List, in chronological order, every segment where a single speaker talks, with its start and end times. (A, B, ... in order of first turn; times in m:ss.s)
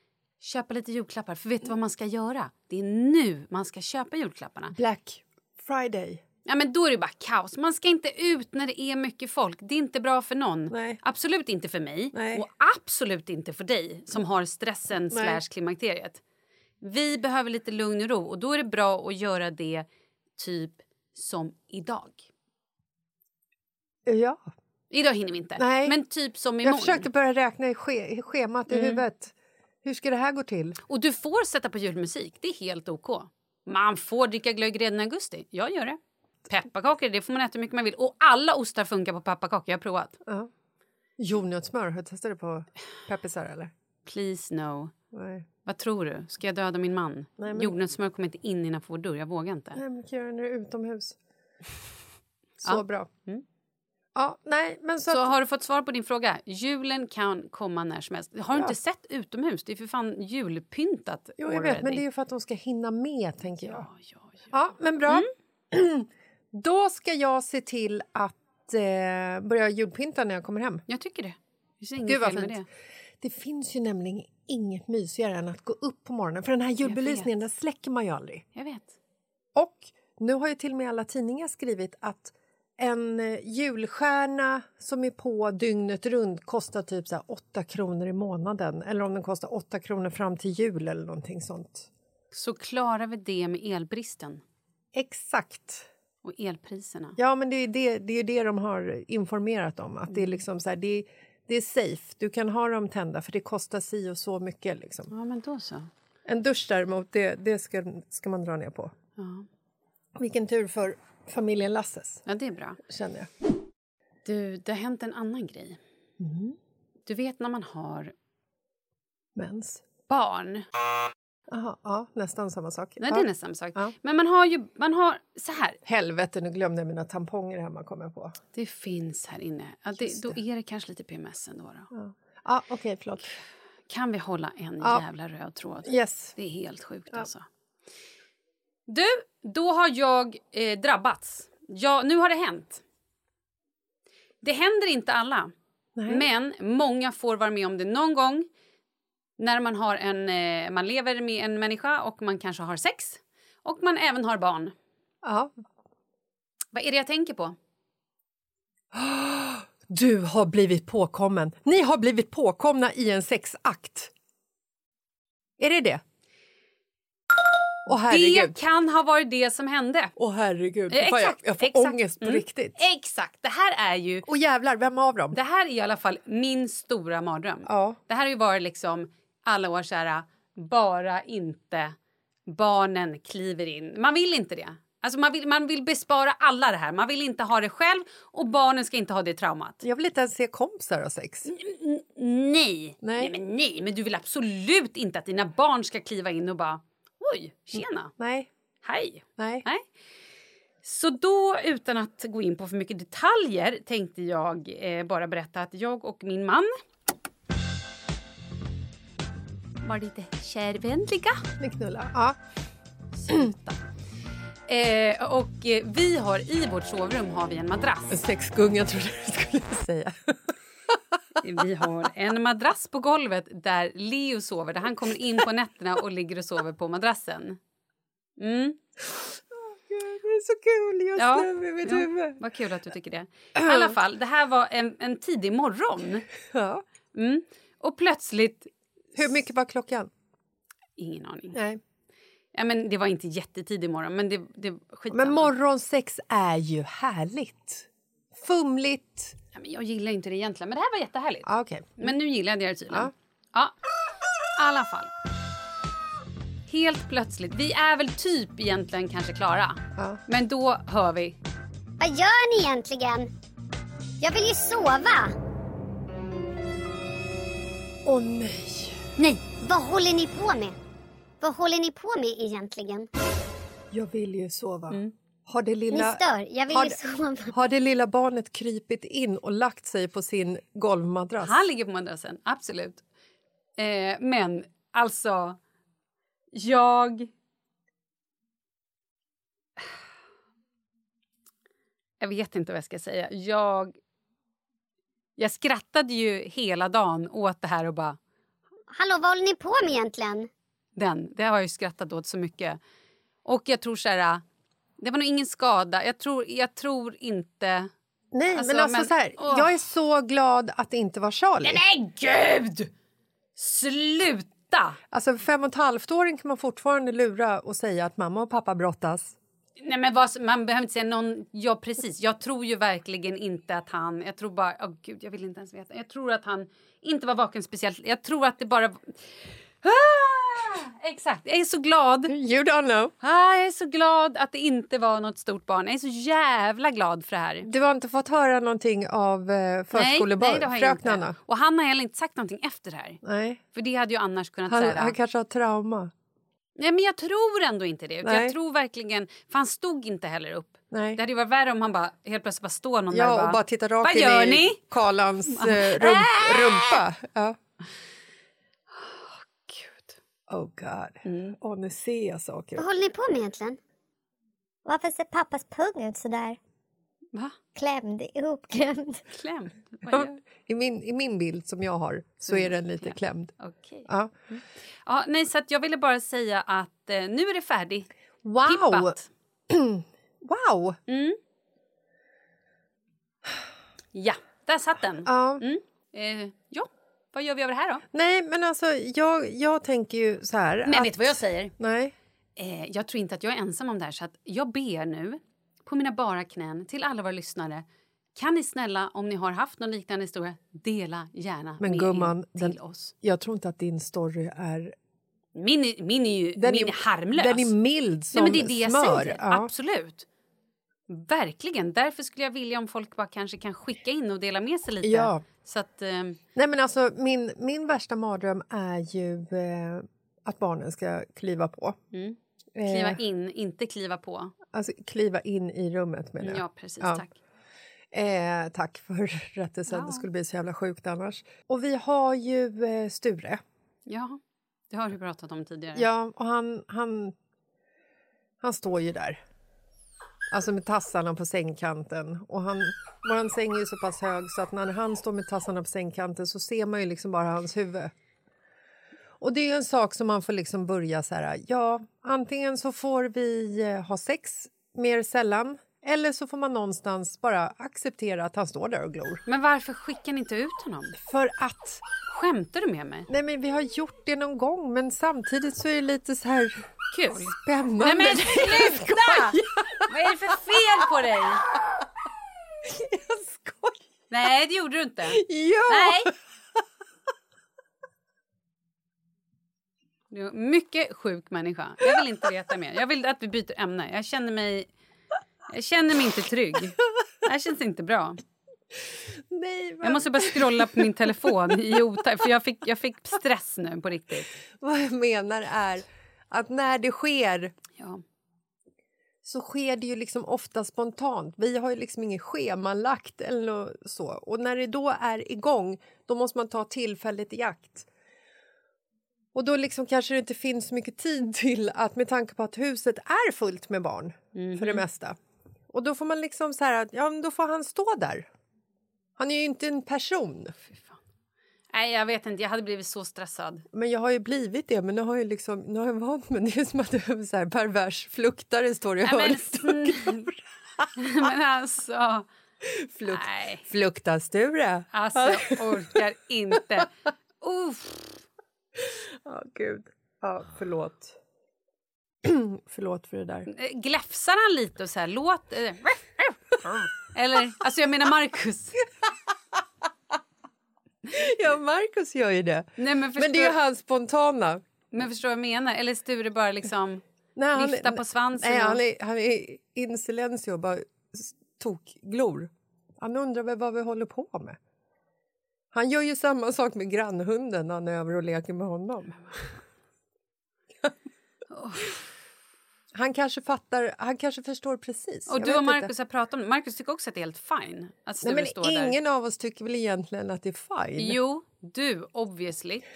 0:00.4-0:04.8 A
0:04.7-0:06.2 B
0:06.5-0:16.2 A
0:10.7-0:11.0 B
0:12.1-0:12.5 B
0:15.1-0:15.4 B
0:16.8-0:22.3 A
0:24.1-0:24.5 B
0:24.9-0:27.0 A
0:25.6-0:26.0 B
0:26.6-0:30.8 B
0:28.7-0:29.0 A
0:30.9-0:40.2 A
0:41.2-0:43.7 B
0:44.1-0:44.9 A
0:45.1-0:45.5 B
0:45.7-0:49.8 A
0:47.4-0:47.7 B
0:49.8-0:51.2 B
0:52.6-0:53.1 B
0:52.7-0:53.4 A
0:54.2-0:55.3 B
0:55.1-1:02.0 A
1:01.4-1:03.9 B
1:03.7-1:04.5 A
1:04.5-1:10.8 B
1:10.9-1:12.6 A
1:12.0-1:12.7 B
1:13.2-1:18.4 B
1:16.8-1:17.3 A
1:18.6-1:18.9 A
1:19.6-1:31.9 B
1:32.3-1:34.4 A
1:34.9-1:35.9 B
1:36.2-1:37.2 A
1:37.2-1:45.1 B
1:40.1-1:40.4 A
1:45.1-1:45.9 A
1:46.3-1:48.9 B
1:49.2-1:49.5 A
1:50.2-1:52.2 B
1:52.3-1:52.8 A
1:52.8-1:53.3 B
1:54.2-1:55.8 A
1:56.2-1:56.6 B
1:57.1-1:58.1 A
1:59.4-1:59.8 B
2:00.1-2:00.7 A
2:01.5-2:03.9 B
2:03.0-2:05.8 A
2:05.8-2:08.4 B
2:08.5-2:11.9 A
2:10.0-2:10.4 B
2:11.9-2:13.4 B
2:13.9-2:17.4 A
2:15.8-2:16.4 B
2:18.9-2:22.8 A
2:24.4-2:25.5 A
2:26.0-2:26.3 B
2:26.1-2:28.5 A
2:29.4-2:34.8 A
2:35.2-2:35.5 B
2:36.7-2:37.6 A
2:38.9-2:44.1 B
2:45.6-2:46.0 B
2:47.9-2:48.6 B
2:48.1-2:50.1 A
2:50.2-2:52.8 B
2:50.9-2:54.2 A
2:54.3-2:55.4 B
2:55.3-3:02.0 A
2:57.7-2:58.0 B
3:02.5-3:09.8 A
3:09.8-3:11.5 B
3:11.5-3:18.1 A
3:13.0-3:13.3 B
3:17.7-3:18.5 B
3:18.8-3:19.9 A
3:19.4-3:19.7 B
3:20.8-3:26.7 A
3:29.8-3:31.4 A
3:31.6-3:32.4 B
3:33.2-3:33.8 A
3:34.7-3:38.2 A
3:38.1-3:40.5 B
3:41.4-3:47.6 A
3:48.4-3:48.8 A
3:49.7-3:52.4 B
3:51.2-3:56.3 A
3:53.6-3:54.0 B
3:56.5-3:56.8 B
3:57.1-3:58.7 A
3:59.2-4:00.1 B
4:01.0-4:01.6 A
4:01.5-4:01.8 B
4:02.5-4:05.5 A
4:05.1-4:09.4 B
4:09.6-4:13.7 A
4:11.4-4:12.2 B
4:14.6-4:15.1 A
4:16.7-4:21.4 A
4:20.0-4:20.2 B
4:22.0-4:23.3 C
4:24.2-4:25.3 C
4:28.1-4:29.0 B
4:29.2-4:29.4 A
4:29.6-4:30.8 C
4:31.4-4:33.1 C
4:33.9-4:41.7 B
4:35.9-4:37.5 C
4:41.4-4:43.0 A
4:43.8-4:45.6 A
4:46.5-4:47.3 A
4:52.2-4:54.0 A
4:55.4-4:58.2 A
4:58.9-5:00.5 C
5:01.0-5:02.8 A
5:03.4-5:04.4 A
5:05.0-5:07.9 A
5:08.3-5:11.8 B
5:08.6-5:09.7 A
5:11.6-5:12.9 A
5:13.6-5:15.0 A
5:15.1-5:19.4 B
5:19.8-5:32.3 A
5:32.3-5:33.2 B
5:33.2-5:37.7 A
5:37.6-5:41.4 B
5:39.9-5:43.2 A
5:43.2-5:43.6 B
5:43.7-5:45.2 A
5:44.7-5:46.1 B
5:46.8-5:54.8 A
5:48.2-5:48.6 B
5:50.9-5:51.2 B
5:53.1-5:57.6 B
5:55.5-5:57.0 A
5:58.9-6:00.2 A
6:00.5-6:02.9 B
6:01.3-6:01.6 A
6:02.8-6:03.8 C
6:04.9-6:06.6 C
6:07.8-6:09.2 C
6:09.3-6:10.4 A
6:10.1-6:14.3 B
6:12.5-6:18.1 A
6:18.4-6:19.2 B
6:18.6-6:19.3 A
6:19.7-6:21.0 B
6:21.1-6:21.4 A
6:24.1-6:28.0 A
6:25.2-6:25.6 B
6:28.1-6:32.1 B
6:30.8-6:31.7 A
6:32.6-6:37.8 A
6:38.4-6:43.1 A
6:41.8-6:45.0 B
6:45.5-6:47.7 A
6:46.6-6:49.7 B
6:48.3-6:50.3 A
6:51.1-6:56.4 A
6:55.0-6:55.4 B
6:56.6-7:02.0 B
7:02.1-7:04.5 A
7:02.8-7:03.2 B
7:04.7-7:07.2 B
7:06.4-7:07.4 A
7:08.1-7:13.6 B
7:09.9-7:10.2 A
7:14.1-7:14.4 A
7:14.9-7:16.1 A
7:16.0-7:17.4 B
7:18.6-7:19.4 B
7:20.5-7:28.1 B
7:29.4-7:39.4 B
7:39.5-7:41.2 A
7:41.2-7:42.0 B
7:42.3-7:43.3 A
7:43.3-7:52.0 B
7:47.1-7:51.7 A
7:52.8-7:54.0 B
7:54.3-7:56.3 A
7:55.3-7:56.4 B
8:00.3-8:04.9 A
8:05.7-8:08.4 A
8:09.4-8:11.5 B
8:10.0-8:14.5 A
8:14.8-8:17.8 B
8:18.0-8:18.2 A
8:19.4-8:28.1 B
8:29.5-8:35.4 B
8:34.6-8:35.0 A
8:35.9-8:38.5 B
8:39.4-8:40.8 B
8:40.9-8:41.2 A
8:41.9-8:43.8 A
8:43.9-8:51.1 B
8:49.2-8:50.5 A
8:51.2-8:52.5 A
8:52.9-8:56.2 B
8:53.2-8:53.8 A
8:55.1-8:58.4 A
8:59.0-9:01.4 B
9:02.4-9:03.7 B
9:03.7-9:09.0 A
9:11.3-9:14.8 B
9:13.0-9:13.7 A
9:15.1-9:17.2 A
9:17.6-9:24.8 B
9:17.8-9:19.0 A
9:25.9-9:29.5 B
9:31.7-9:32.2 A
9:33.1-9:36.1 B
9:35.5-9:39.2 A
9:38.4-9:41.4 B
9:41.2-9:43.0 A